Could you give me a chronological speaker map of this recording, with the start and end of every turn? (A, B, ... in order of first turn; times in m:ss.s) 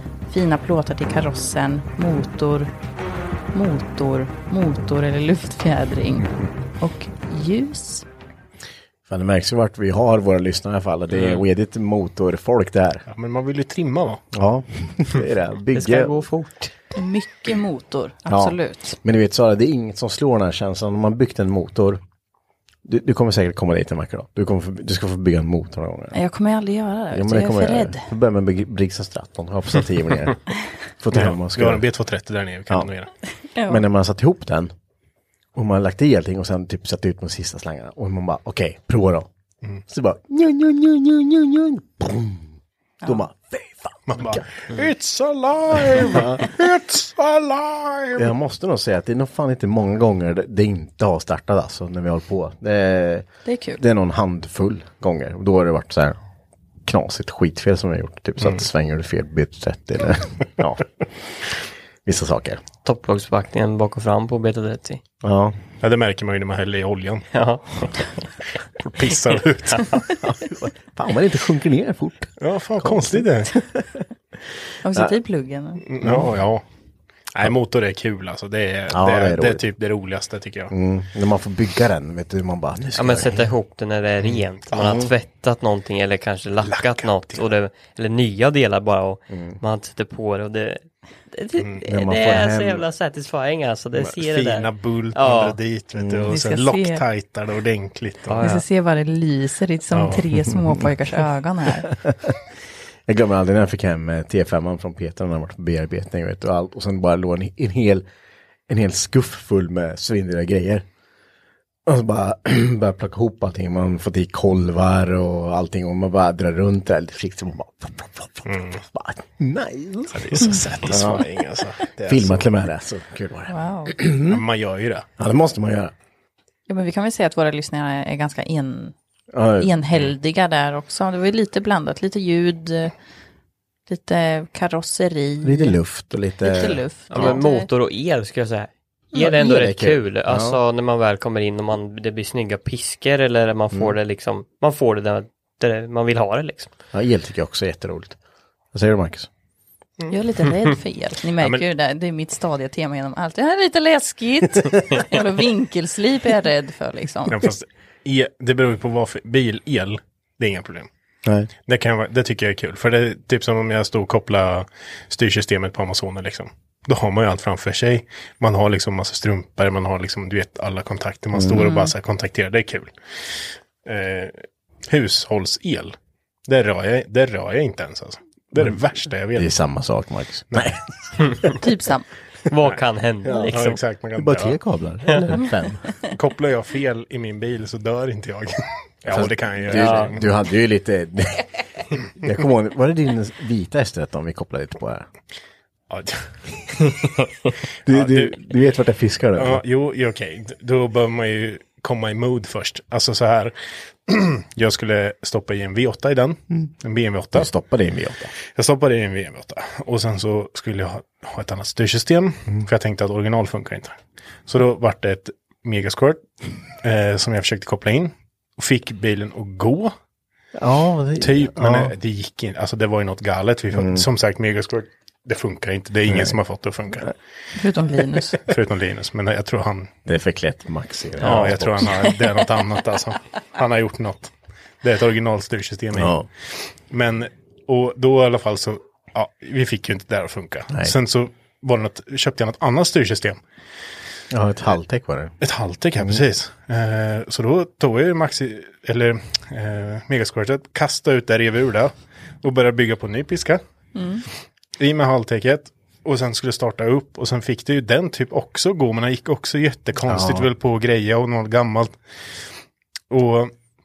0:00.3-0:02.7 A
0:03.5-0:08.0 A
0:09.1-0:13.0 B
0:13.1-0:14.2 C
0:14.3-0:16.2 B
0:15.7-0:16.7 D
0:16.9-0:19.0 A
0:18.3-0:22.0 B
0:22.8-0:26.2 B
0:26.1-0:28.1 A
0:27.1-0:30.4 B
0:31.0-0:31.8 B
0:31.1-0:33.1 C
0:33.5-0:33.8 A
0:33.7-0:34.7 B
0:35.5-0:39.3 B
0:39.9-0:44.5 B
0:44.1-0:48.3 C
0:45.7-0:46.5 B
0:48.1-0:53.3 B
0:53.4-0:53.8 A
0:53.8-0:56.2 B
0:56.8-1:00.9 B
1:02.0-1:02.6 B
1:02.8-1:05.0 D
1:05.2-1:05.6 B
1:05.8-1:07.2 C
1:07.3-1:08.2 D
1:08.8-1:10.0 C
1:10.2-1:13.9 B
1:12.4-1:13.5 C
1:14.8-1:15.8 A
1:15.8-1:16.6 C
1:16.0-1:16.3 B
1:17.3-1:20.7 C
1:18.9-1:19.6 B
1:20.7-1:23.5 B
1:23.0-1:35.6 D
1:24.7-1:25.1 B
1:26.6-1:27.4 C
1:29.3-1:29.6 B
1:31.6-1:31.8 C
1:31.8-1:32.8 B
1:34.0-1:38.4 C
1:36.0-1:36.3 B
1:36.3-1:37.0 A
1:38.3-1:38.6 D
1:38.4-1:41.9 A
1:39.9-1:40.2 C
1:43.1-1:48.0 B
1:48.7-1:50.8 B
1:51.8-2:01.4 B
1:58.5-1:58.8 C
2:00.1-2:02.5 C
2:02.0-2:04.4 B
2:03.5-2:03.9 A
2:04.2-2:05.0 C
2:05.2-2:05.9 B
2:06.7-2:08.9 A
2:09.3-2:09.7 B
2:09.6-2:12.9 A
2:13.9-2:15.8 A
2:15.4-2:16.8 B
2:16.4-2:17.7 A
2:17.1-2:26.7 D
2:19.1-2:20.6 B
2:26.9-2:28.2 B
2:28.7-2:29.3 B
2:30.1-2:37.4 A
2:31.4-2:31.6 C
2:37.3-2:40.9 C
2:41.2-2:41.5 B
2:41.6-2:52.9 C
2:51.3-2:51.6 B
2:51.6-2:51.9 A
2:53.8-2:56.0 C
2:56.5-2:59.5 C
2:59.3-3:00.8 B
3:01.6-3:02.1 A
3:02.5-3:03.8 D
3:03.2-3:03.5 B
3:03.5-3:04.6 C
3:04.2-3:05.8 B
3:06.0-3:10.3 C
3:09.1-3:11.5 B
3:09.7-3:10.1 D
3:12.1-3:15.1 B
3:15.9-3:16.9 C
3:17.8-3:19.6 B
3:17.9-3:18.4 C
3:19.4-3:23.5 C
3:24.1-3:27.5 C
3:27.3-3:28.3 B
3:28.5-3:36.2 C
3:36.8-3:39.9 C
3:40.6-3:41.9 B
3:41.2-3:47.1 C
3:43.7-3:44.0 B
3:46.1-3:46.4 B
3:47.5-3:48.4 A
3:48.4-3:49.9 C
3:50.0-3:51.9 B
3:51.2-3:56.2 C
3:51.2-3:51.6 D
3:52.0-3:52.4 A
3:55.9-3:56.2 B
3:56.9-4:03.4 C
4:04.3-4:05.3 B
4:05.4-4:13.6 C
4:13.9-4:14.2 A
4:14.8-4:21.9 C
4:20.0-4:20.5 B
4:23.1-4:23.5 C